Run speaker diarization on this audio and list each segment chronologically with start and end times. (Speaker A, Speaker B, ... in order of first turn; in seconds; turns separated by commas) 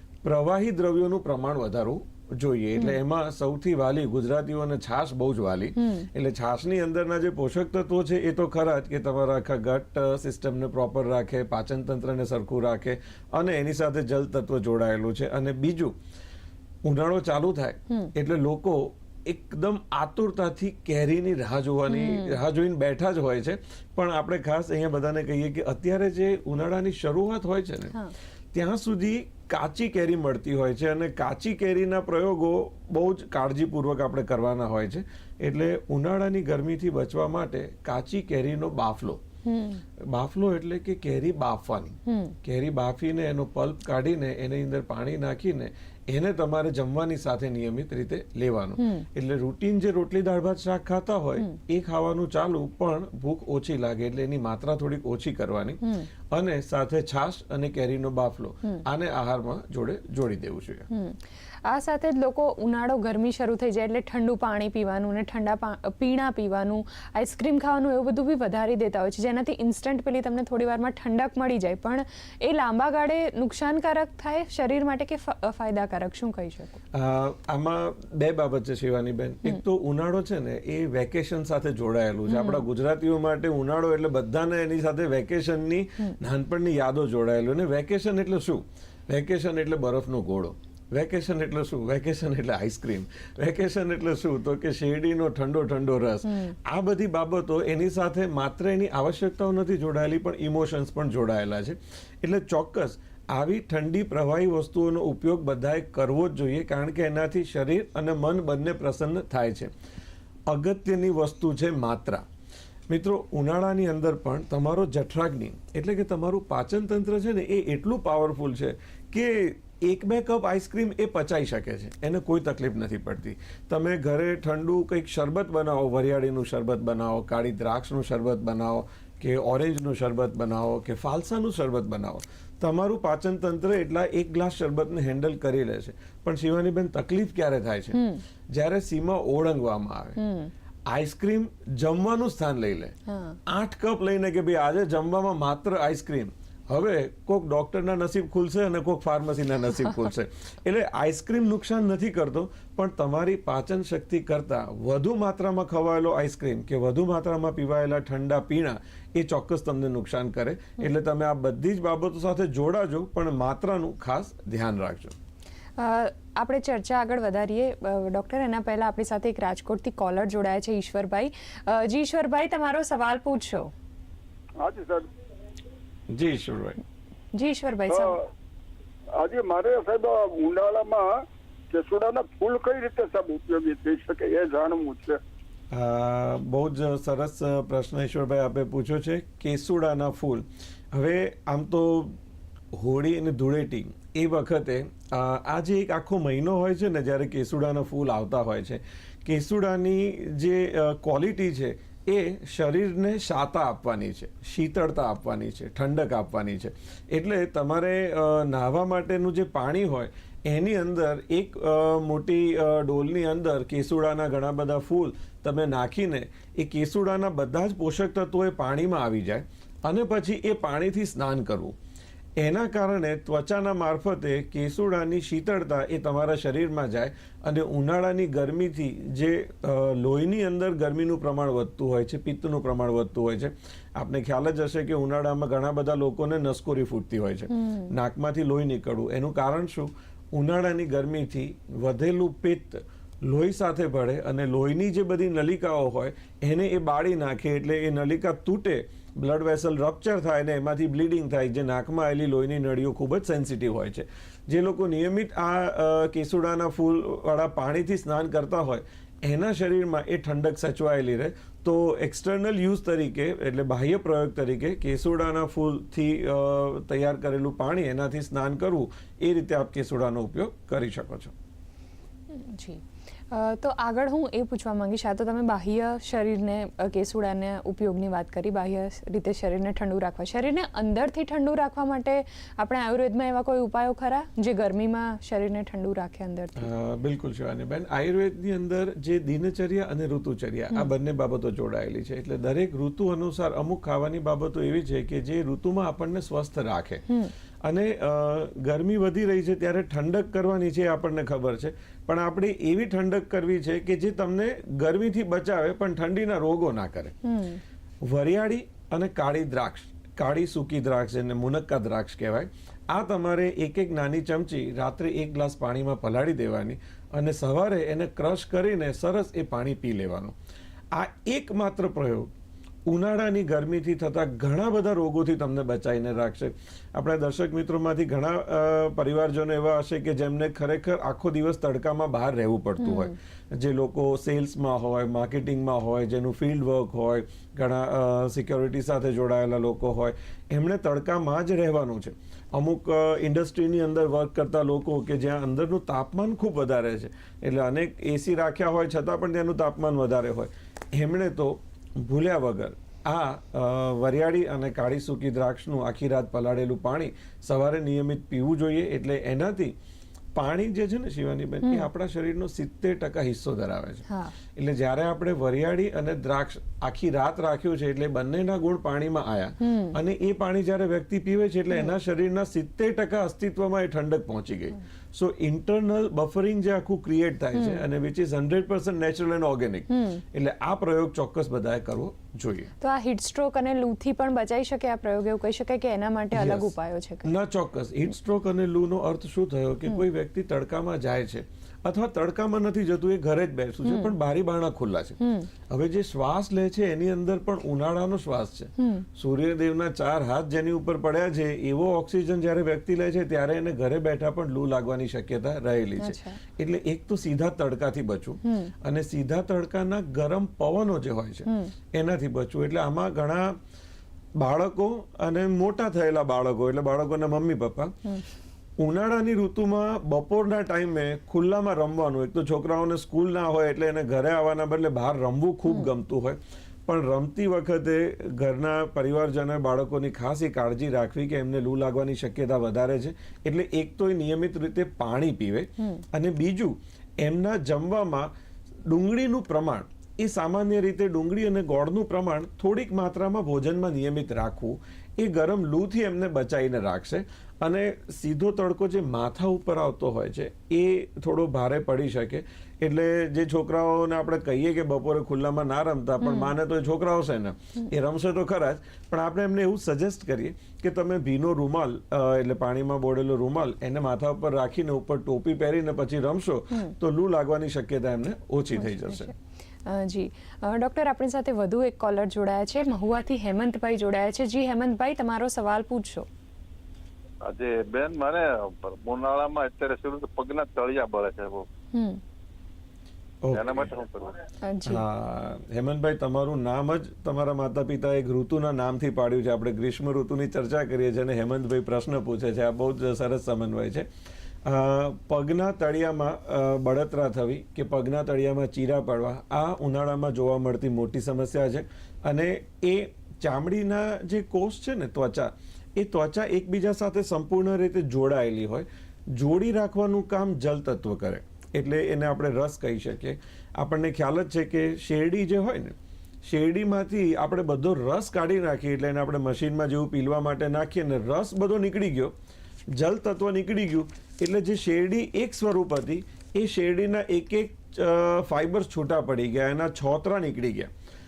Speaker A: 0.2-16.0, Speaker B: 5.8-6.1, Speaker A: 16.9-28.0, Speaker B: 21.9-22.4, Speaker A: 28.5-39.2, Speaker B: 39.5-39.8, Speaker A: 40.0-60.9, Speaker B: 42.1-42.4, Speaker B: 48.8-49.1, Speaker B: 55.8-56.1, Speaker B: 60.9-76.8, Speaker A: 76.9-109.7, Speaker B: 82.3-82.6, Speaker A: 110.5-112.2, Speaker A: 112.9-140.2, Speaker B: 137.9-138.2, Speaker B: 140.2-140.5, Speaker A: 140.9-143.0, Speaker B: 143.1-143.4, Speaker A: 143.5-165.2, Speaker B: 165.8-173.7, Speaker C: 174.6-175.1, Speaker A: 176.1-176.8, Speaker B: 177.3-178.2, Speaker C: 177.9-178.2, Speaker C: 179.2-181.2, Speaker C: 181.7-185.2, Speaker A: 185.7-192.2, Speaker A: 192.7-221.8, Speaker A: 222.4-271.3, Speaker B: 237.5-237.9, Speaker B: 272.3-286.7, Speaker A: 286.6-297.1, Speaker A: 297.6-307.2, Speaker B: 307.2-307.6, Speaker A: 308.0-320.4, Speaker A: 320.9-322.3, Speaker A: 322.9-359.7, Speaker B: 332.8-333.1, Speaker A: 360.3-382.7, Speaker B: 364.1-364.3, Speaker B: 369.6-370.0, Speaker B: 377.6-377.8, Speaker B: 379.9-380.2, Speaker B: 382.8-387.3, Speaker A: 386.3-386.7, Speaker A: 387.2-413.6, Speaker B: 393.9-394.1, Speaker B: 395.2-395.5, Speaker B: 398.8-399.1, Speaker B: 406.0-406.4, Speaker B: 408.4-408.7, Speaker B: 411.5-411.7, Speaker A: 414.4-417.9, Speaker A: 418.8-438.3, Speaker B: 435.8-436.1, Speaker A: 438.9-469.3, Speaker B: 456.2-456.5, Speaker B: 468.8-476.3, Speaker D: 477.4-481.7, Speaker B: 481.9-482.2, Speaker A: 483.4-483.9, Speaker D: 483.5-484.4, Speaker B: 484.6-485.0, Speaker A: 484.9-494.1, Speaker A: 494.6-522.4, Speaker A: 522.9-530.9